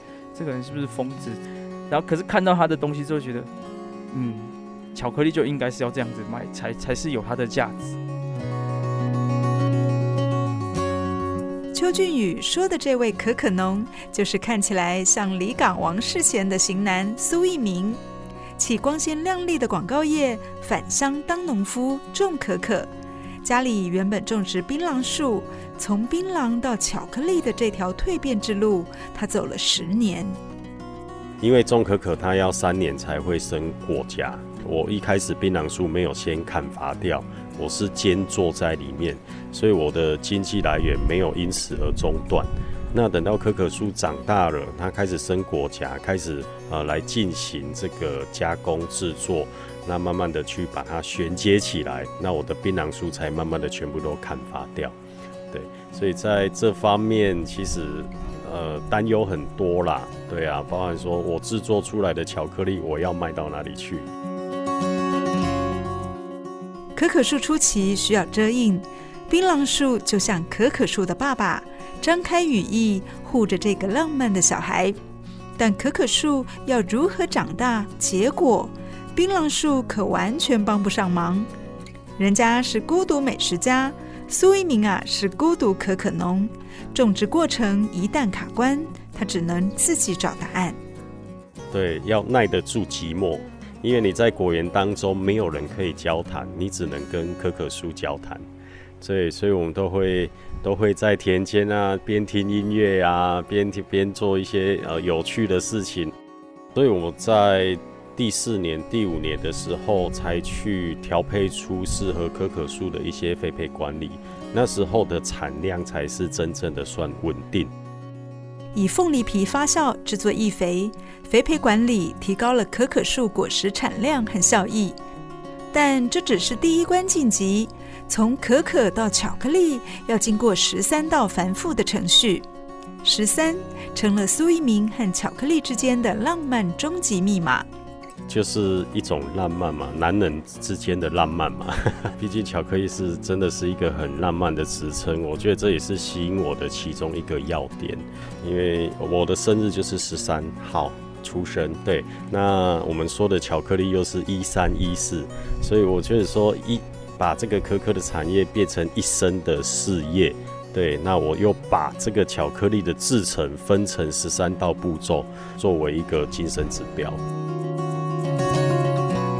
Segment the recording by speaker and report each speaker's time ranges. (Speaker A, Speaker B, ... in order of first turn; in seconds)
Speaker A: 0.3-3.5, 4.1-8.0
Speaker B: 11.7-18.0, 18.6-22.9, 23.4-30.4, 67.0-74.9, 75.6-81.5, 82.2-90.8, 118.7-125.0, 125.7-132.5, 133.0-137.7
Speaker C: 31.4-54.9, 55.5-64.1, 91.7-98.4, 99.0-106.1, 106.7-117.7, 138.3-167.2